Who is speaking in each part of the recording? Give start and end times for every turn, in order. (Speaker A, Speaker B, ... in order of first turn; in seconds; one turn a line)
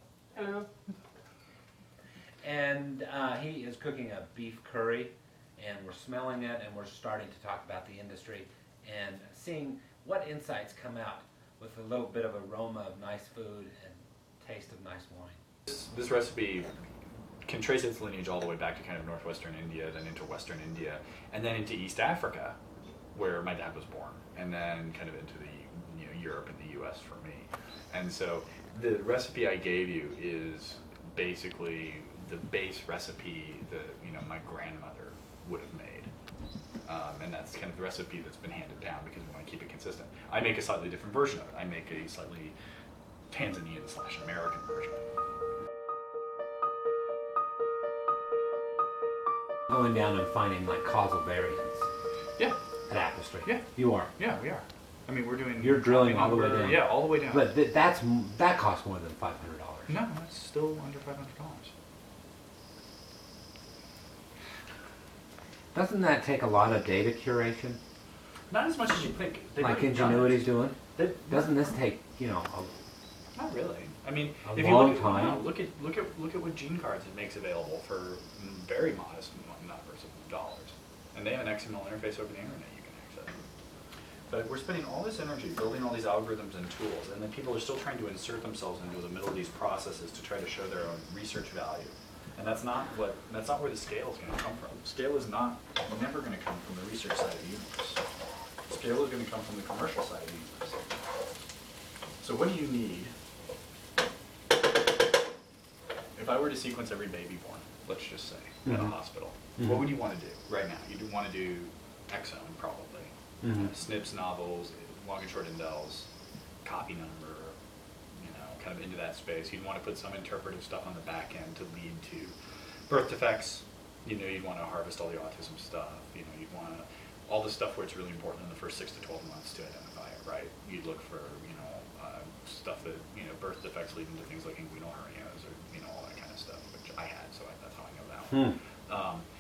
Speaker A: 2.4-15.4
Speaker B: 15.7-16.8
Speaker B: 17.4-22.6
Speaker B: 23.1-36.1
Speaker B: 36.9-42.5
Speaker B: 43.3-45.0
Speaker A: 49.7-51.9
Speaker A: 52.9-54.1
Speaker B: 53.4-57.5
Speaker A: 55.6-60.0
Speaker B: 59.9-61.7
Speaker A: 65.7-67.8
Speaker B: 68.5-71.5
Speaker A: 69.6-72.7
Speaker B: 73.3-83.4
Speaker A: 74.5-75.5
Speaker B: 84.3-98.0
Speaker B: 98.7-100.8
Speaker B: 102.2-103.1
Speaker B: 106.2-116.1
Speaker A: 108.7-108.9
Speaker A: 109.6-109.9
Speaker A: 113.4-113.7
Speaker B: 116.6-117.6
Speaker B: 118.2-122.3
Speaker B: 122.9-139.3